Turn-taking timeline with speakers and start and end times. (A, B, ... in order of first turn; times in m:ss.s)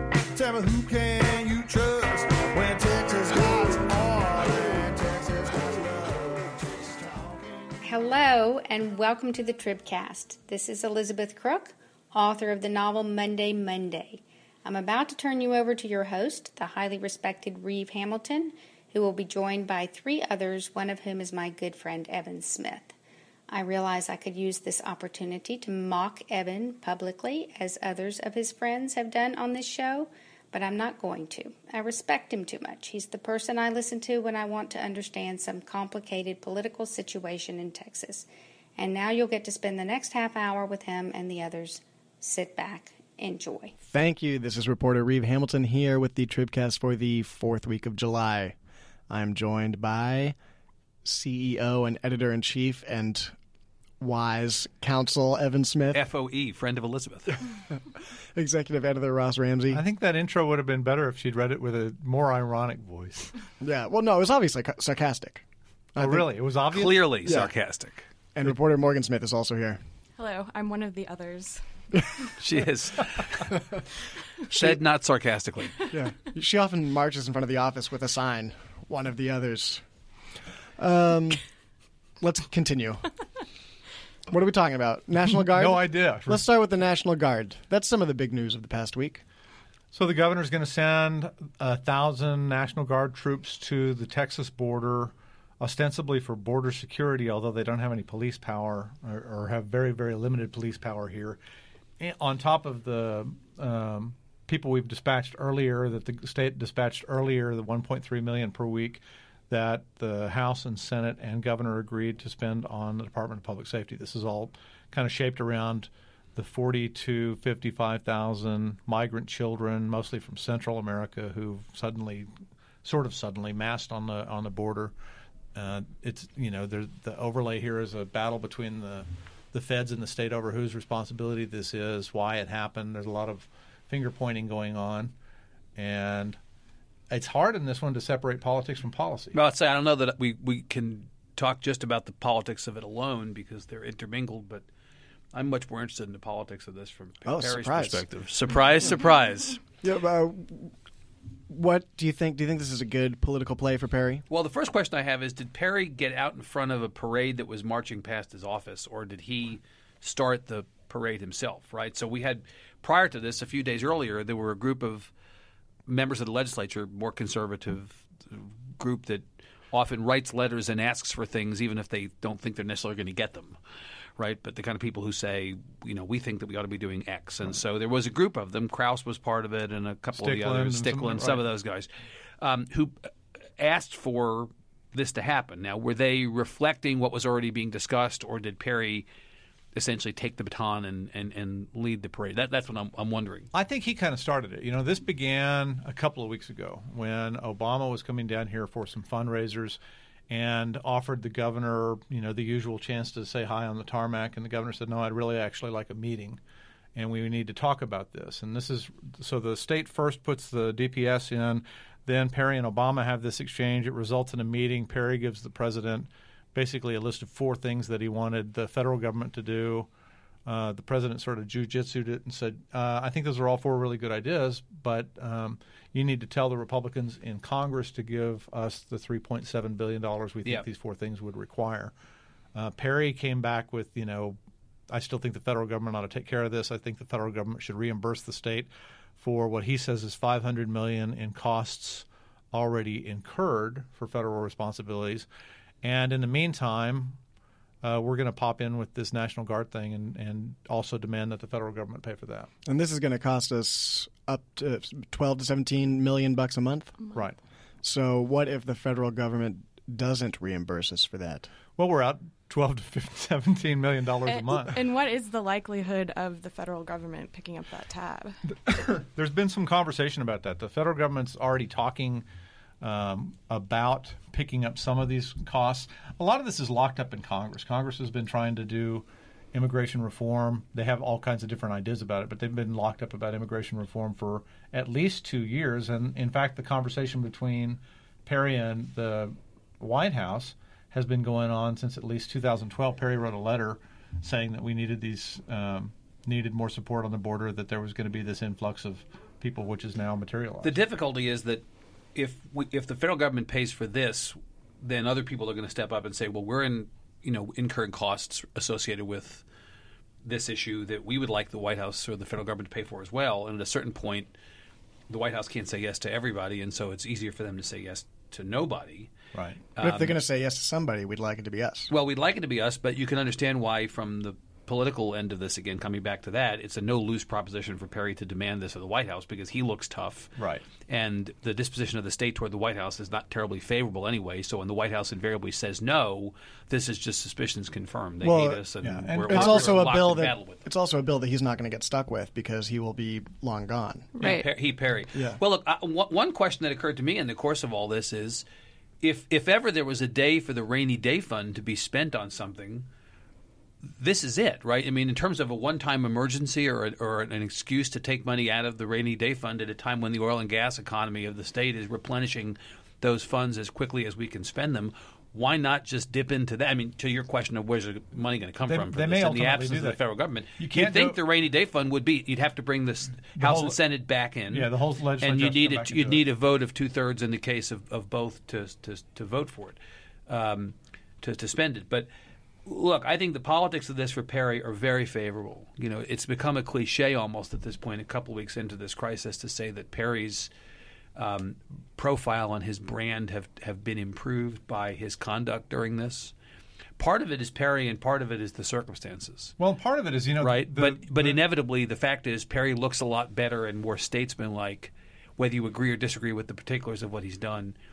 0:00.4-0:07.8 A
0:07.8-0:23.0 B
0:23.5-0:43.7 B
0:43.9-0:48.6 C
0:49.1-0:50.4 C
0:51.0-0:53.4 C
0:54.0-0:56.0 C
0:55.9-0:57.4 D
0:58.4-0:59.8 C
0:59.7-1:03.3 E
1:03.6-1:05.4 C
1:06.0-1:06.3 C
1:06.0-1:07.2 E
1:06.7-1:08.1 D
1:07.2-1:07.5 C
1:08.4-1:09.8 C
1:10.2-1:11.6 F
1:12.4-1:13.6 D
1:14.5-1:15.9 D
1:14.6-1:14.8 C
1:15.9-1:19.8 C
1:20.8-1:21.4 C
1:22.2-1:23.2 C
1:24.3-1:29.2 C
1:25.4-1:26.4 E
1:29.9-1:41.4 E
1:42.0-2:02.3 E
2:02.8-2:04.9 E
2:05.6-2:15.1 E
2:15.8-2:16.4 E
2:17.1-2:19.4 E
2:19.3-2:24.6 D
2:25.3-2:29.6 D
2:27.2-2:28.0 C
2:29.8-2:30.7 C
2:31.5-2:34.2 C
2:34.3-2:45.1 D
2:45.9-2:53.6 D
2:54.2-3:01.9 D
3:00.2-3:01.4 E
3:02.4-3:09.1 D
3:09.8-3:13.5 D
3:13.5-3:19.8 E
3:20.3-3:26.4 E
3:27.0-3:39.9 E
3:40.5-3:51.9 E
3:52.6-3:54.4 E
3:54.9-4:05.3 E
4:05.8-4:07.2 E
4:07.8-4:12.5 E
4:12.6-4:17.0 C
4:17.8-4:21.5 C
4:21.8-4:24.8 E
4:24.3-4:28.4 F
4:28.7-4:32.2 E
4:32.8-5:00.8 E
5:00.6-5:01.6 D
5:02.2-5:09.4 D
5:10.2-5:14.3 D
5:15.1-5:19.1 D
5:19.3-5:19.6 E
5:19.8-5:20.2 D
5:19.8-5:21.9 C
5:21.9-5:40.7 D
5:30.4-5:30.6 E
5:38.2-5:38.7 C
5:38.8-5:40.0 E
5:39.3-5:44.1 C
5:44.2-5:44.5 F
5:44.2-5:48.4 D
5:45.1-5:45.4 C
5:49.0-5:52.9 D
5:53.8-6:22.1 D
6:08.7-6:10.0 E
6:10.6-6:11.2 E
6:13.4-6:13.8 E
6:14.5-6:16.2 E
6:22.7-6:30.5 D
6:31.2-6:36.3 D
6:37.0-6:39.6 D
6:39.6-6:41.4 E
6:40.4-6:47.8 D